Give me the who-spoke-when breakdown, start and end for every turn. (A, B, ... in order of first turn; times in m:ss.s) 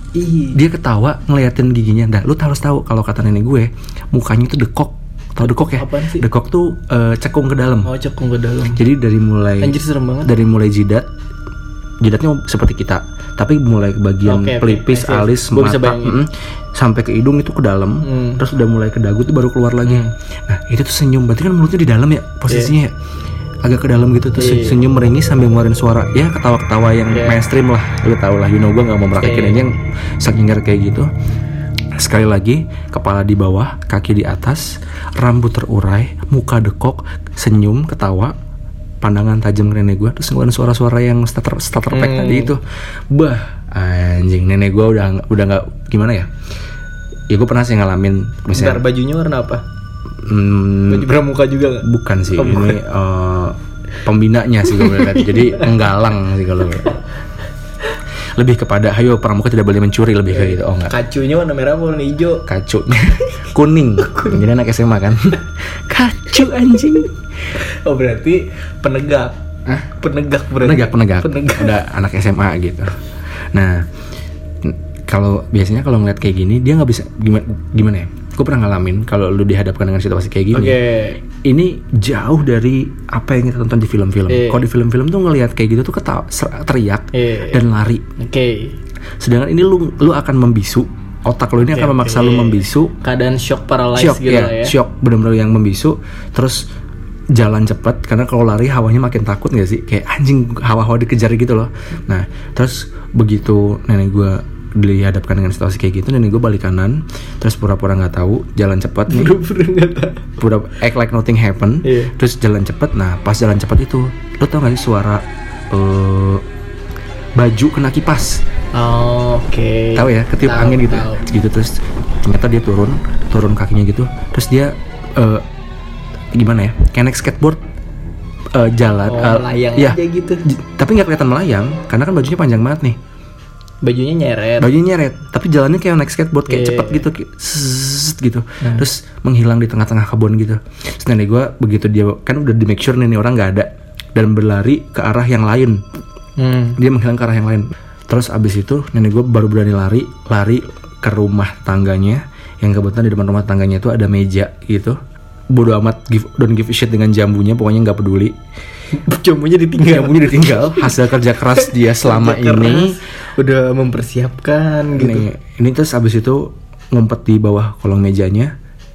0:00.2-0:00.6 A
0:00.5-0:07.9 B
0:05.7-0:06.2 A
0:07.8-0:08.8 A
0:08.7-0:11.1 B
0:09.6-0:10.3 A
0:12.0-0:22.9 B
0:14.2-0:16.2 A
0:18.0-0:18.4 A
0:19.8-0:20.1 A
0:22.5-0:22.7 A
0:23.6-0:31.1 B
0:24.4-0:24.8 A
0:27.1-0:27.4 A
0:29.2-0:29.7 A
0:32.0-0:38.4 B
0:39.0-0:46.3 B
0:41.9-0:42.6 A
0:47.3-0:48.8 B
0:48.5-0:49.6 A
0:50.2-0:51.1 B
0:50.9-0:52.8 A
0:51.8-0:57.0 B
0:54.7-0:55.8 A
0:58.4-1:01.0 B
1:00.3-1:02.4 A
1:02.5-1:07.1 B
1:04.0-1:04.4 A
1:07.6-1:09.4 A
1:09.7-1:09.9 B
1:10.0-1:11.8 A
1:10.6-1:13.0 B
1:13.5-1:13.9 B
1:14.6-1:20.8 B
1:20.5-1:21.2 A
1:21.4-1:28.1 B
1:24.3-1:24.6 A
1:27.1-1:27.6 A
1:28.2-1:28.8 A
1:29.2-1:32.9 B
1:31.6-1:34.8 A
1:34.0-1:36.6 B
1:37.4-1:49.4 B
1:49.1-1:50.4 A
1:50.4-1:56.4 B
1:51.8-1:52.1 A
1:57.4-1:58.4 B
1:58.7-2:01.2 A
2:00.0-2:05.4 B
2:06.4-2:07.6 B
2:08.5-2:13.0 B
2:09.1-2:10.4 A
2:13.8-2:14.7 A
2:14.6-2:25.8 B
2:16.5-2:17.1 A
2:18.6-2:18.9 A
2:26.4-2:26.8 A
2:26.8-2:35.0 B
2:35.5-2:38.3 B
2:38.9-2:45.2 A
2:39.8-2:43.0 B
2:44.9-2:48.5 B